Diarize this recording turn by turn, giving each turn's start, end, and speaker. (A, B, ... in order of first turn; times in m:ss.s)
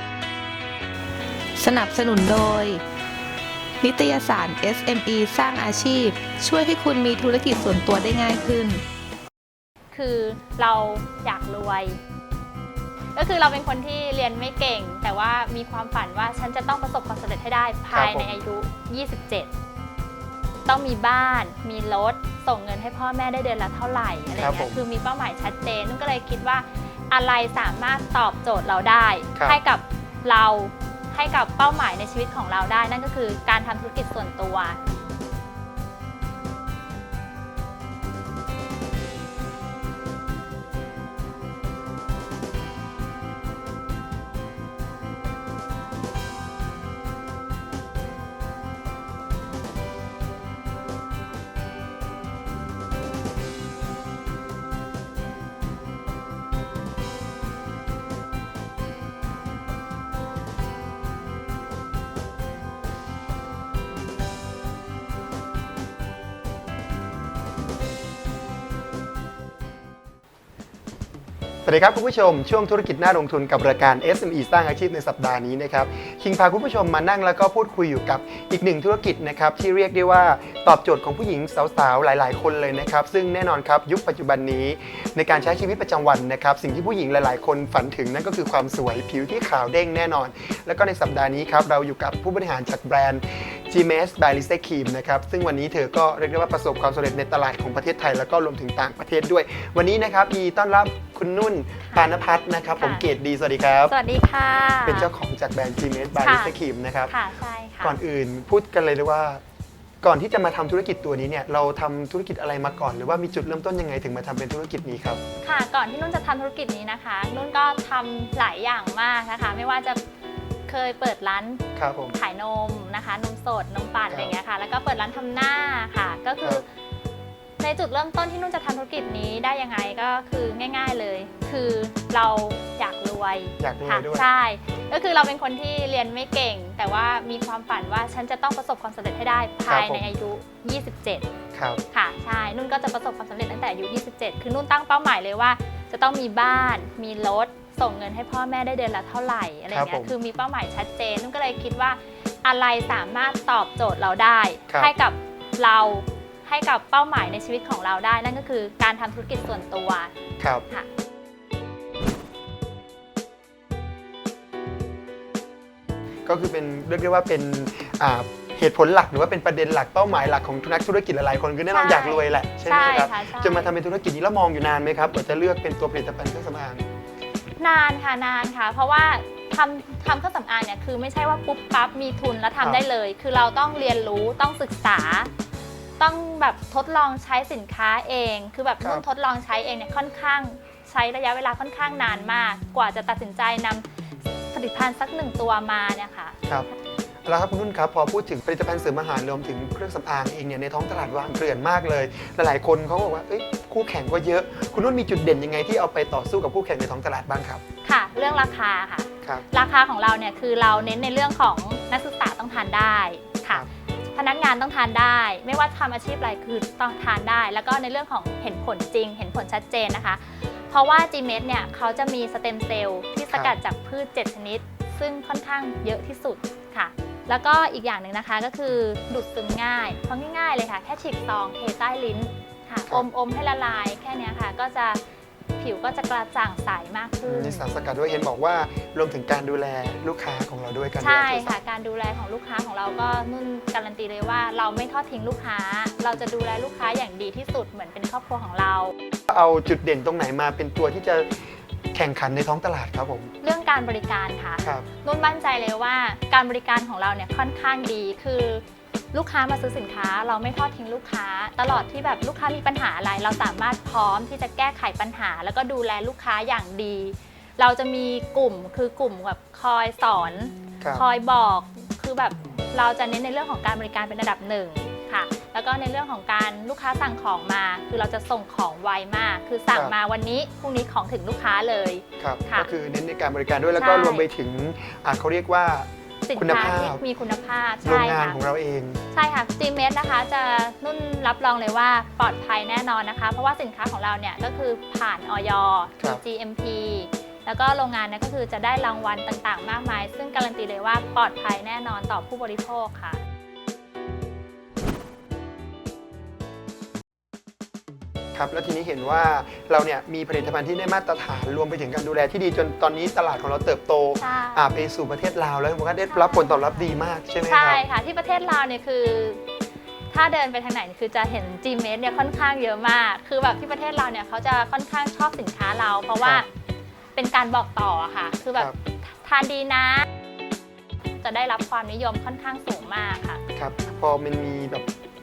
0:01.6-0:02.8 A
0:03.8-0:08.8 A
0:09.9-0:12.0 B
0:13.1-0:19.5 B
0:17.9-0:18.4 C
0:20.6-0:34.8 B
0:24.4-0:24.8 C
1:11.6-1:43.9 C
1:42.8-1:43.0 B
1:43.9-1:45.1 B
1:44.8-1:47.1 C
1:46.2-1:46.5 B
1:47.1-1:48.0 B
1:47.8-1:49.4 C
1:50.0-1:55.2 C
1:55.4-2:00.0 B
2:00.7-2:06.7 B
2:01.8-2:02.2 C
2:04.1-2:04.3 C
2:07.6-2:21.3 B
2:13.6-2:14.2 C
2:19.7-2:20.1 C
2:21.5-2:21.8 C
2:21.9-2:40.1 B
2:29.7-2:30.1 C
2:40.4-2:40.6 C
2:46.2-2:56.8 C
2:51.7-2:53.7 B
2:57.6-3:05.3 B
3:06.0-3:13.8 B
3:14.5-3:16.4 B
3:17.2-3:27.6 C
3:27.8-3:55.0 B
3:43.3-3:43.6 C
3:55.6-3:57.7 B
3:57.2-4:01.6 C
4:01.0-4:08.9 B
4:09.3-4:13.3 C
4:13.4-4:42.7 B
4:42.2-4:47.0 C
4:43.8-4:44.3 B
4:46.2-4:48.4 B
4:47.8-4:49.0 C
4:49.1-5:03.2 B
5:08.3-5:17.8 C
5:14.2-5:14.7 B
5:16.1-5:16.9 B
5:17.4-5:19.4 B
5:20.1-5:26.5 B
5:27.1-5:30.1 B
5:31.2-5:33.4 B
5:33.6-5:34.9 C